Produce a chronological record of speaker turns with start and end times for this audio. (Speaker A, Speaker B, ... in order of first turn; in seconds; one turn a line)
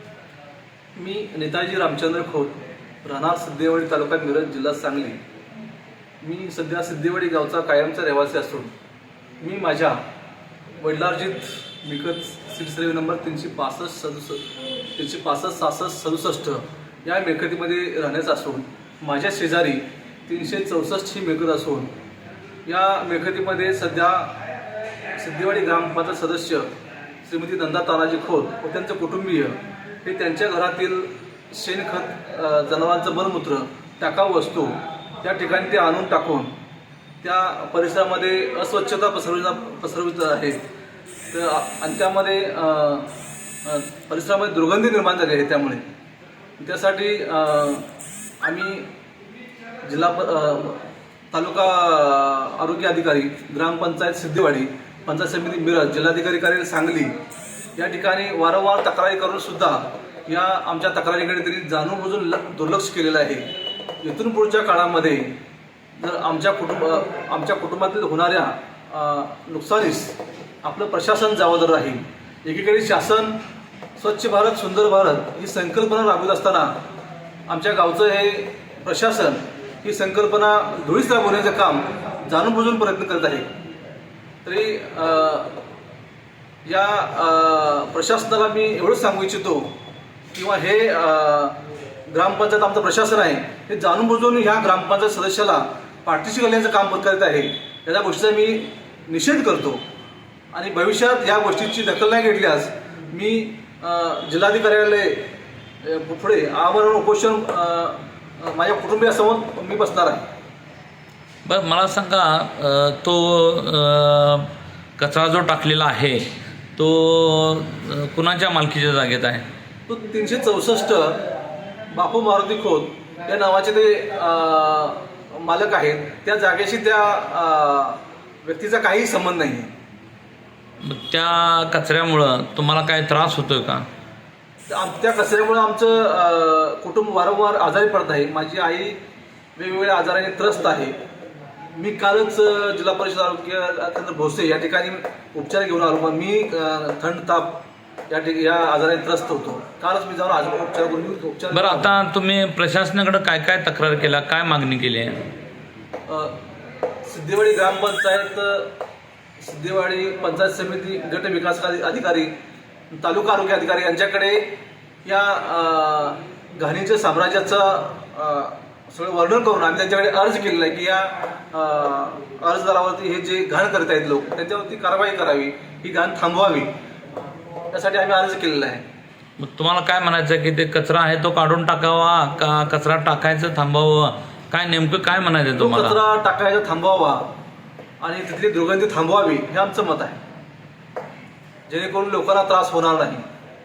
Speaker A: 1.0-5.2
Speaker A: 6.2-8.7
Speaker A: 9.4-10.0
Speaker A: 10.8-21.9
Speaker A: 22.6-24.4
Speaker A: 25.2-26.7
Speaker A: 27.2-36.5
Speaker A: 37.2-40.6
Speaker A: 41.3-43.1
Speaker A: 43.6-45.9
Speaker A: 46.6-47.9
Speaker A: 48.4-48.9
Speaker A: 49.8-57.1
Speaker A: 57.8-63.5
Speaker A: 64.0-65.4
Speaker A: 66.0-73.4
Speaker A: 74.0-76.7
Speaker A: 77.5-83.5
Speaker A: 84.5-85.6
Speaker A: 86.7-89.7
Speaker A: 90.3-91.6
Speaker A: 92.1-99.8
Speaker A: 100.5-105.3
Speaker A: 105.8-110.3
Speaker B: 111.5-116.2
Speaker B: 116.8-119.5
Speaker A: 119.9-121.2
Speaker A: 121.9-129.7
Speaker B: 130.8-133.9
Speaker A: 134.7-139.0
Speaker A: 139.6-141.0
Speaker A: 141.7-152.0
Speaker B: 151.5-155.2
Speaker A: 156.1-156.4
Speaker A: 157.0-158.7
Speaker A: 159.4-162.3
Speaker A: 162.9-176.7
Speaker A: 177.7-178.8
Speaker B: 179.4-186.0
Speaker A: 185.6-187.3
Speaker A: 188.0-190.2
Speaker A: 191.7-193.3